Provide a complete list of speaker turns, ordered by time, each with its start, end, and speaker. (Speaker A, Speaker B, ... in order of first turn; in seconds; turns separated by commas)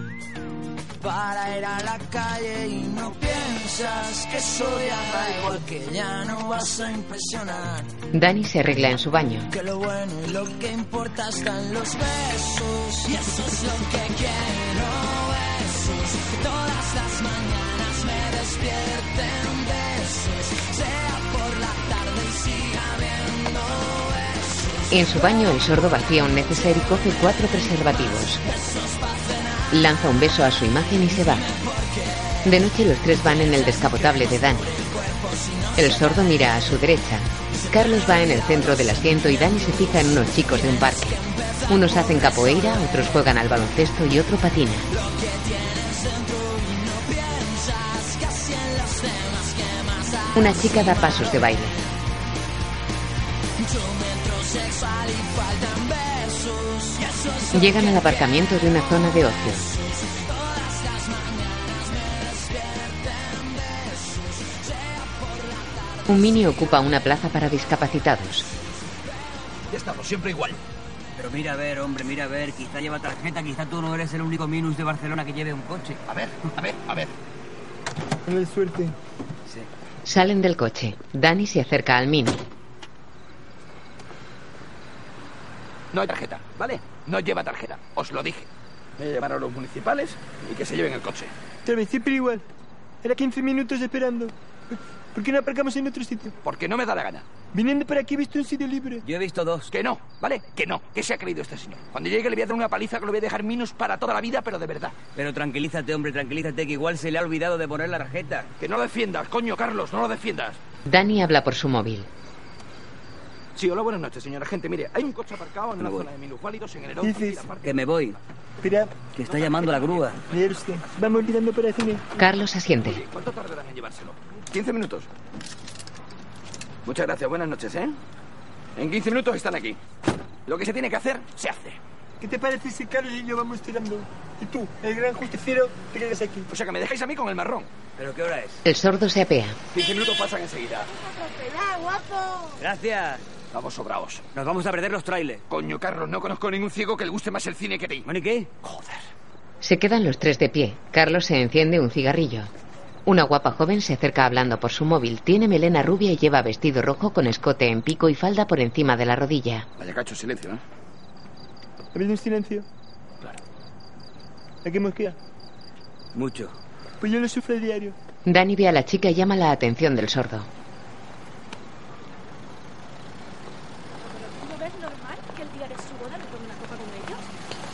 Speaker A: 1.0-7.9, Speaker B: 8.1-9.5, Speaker A: 9.5-24.9, Speaker B: 24.9-28.4, Speaker A: 28.5-29.7, Speaker B: 29.7-31.5, Speaker A: 31.2-32.4, Speaker B: 32.4-34.7, Speaker A: 34.7-36.1, Speaker B: 35.8-44.9, Speaker A: 41.0-42.8, Speaker A: 44.9-51.5, Speaker B: 50.4-51.8, Speaker A: 53.6-58.1, Speaker B: 57.5-59.7, Speaker A: 59.9-66.1, Speaker B: 66.1-68.5, Speaker C: 69.7-70.6, Speaker D: 71.2-76.0, Speaker C: 76.1-77.1, Speaker E: 78.3-79.0, Speaker B: 80.0-82.4, Speaker C: 85.9-91.3, Speaker E: 91.7-92.4, Speaker E: 93.0-96.3, Speaker C: 96.4-97.2, Speaker E: 97.5-99.0, Speaker D: 99.0-99.7, Speaker C: 99.7-105.0, Speaker D: 105.2-108.5, Speaker C: 108.6-110.6, Speaker B: 110.9-112.1, Speaker C: 113.6-117.8, Speaker D: 115.8-116.1, Speaker E: 117.0-117.5, Speaker D: 117.6-118.2, Speaker E: 118.6-119.0, Speaker D: 119.2-120.2, Speaker C: 119.3-121.1, Speaker E: 120.3-122.1, Speaker B: 122.2-123.0, Speaker C: 122.8-125.1, Speaker C: 126.8-128.0, Speaker C: 128.8-129.8, Speaker C: 130.5-131.8, Speaker E: 132.2-136.4, Speaker C: 136.5-137.7, Speaker D: 138.0-138.6, Speaker B: 138.7-139.6, Speaker C: 139.7-140.9, Speaker F: 141.1-142.2, Speaker D: 142.6-143.2, Speaker C: 143.5-144.2, Speaker D: 144.3-145.4, Speaker C: 145.5-148.1, Speaker D: 148.0-148.8, Speaker B: 149.6-152.5, Speaker B: 153.1-159.7, Speaker C: 159.8-160.6, Speaker E: 161.9-162.7, Speaker E: 164.6-165.2, Speaker D: 166.1-166.6, Speaker E: 167.0-167.9, Speaker B: 168.2-170.5, Speaker F: 174.0-177.3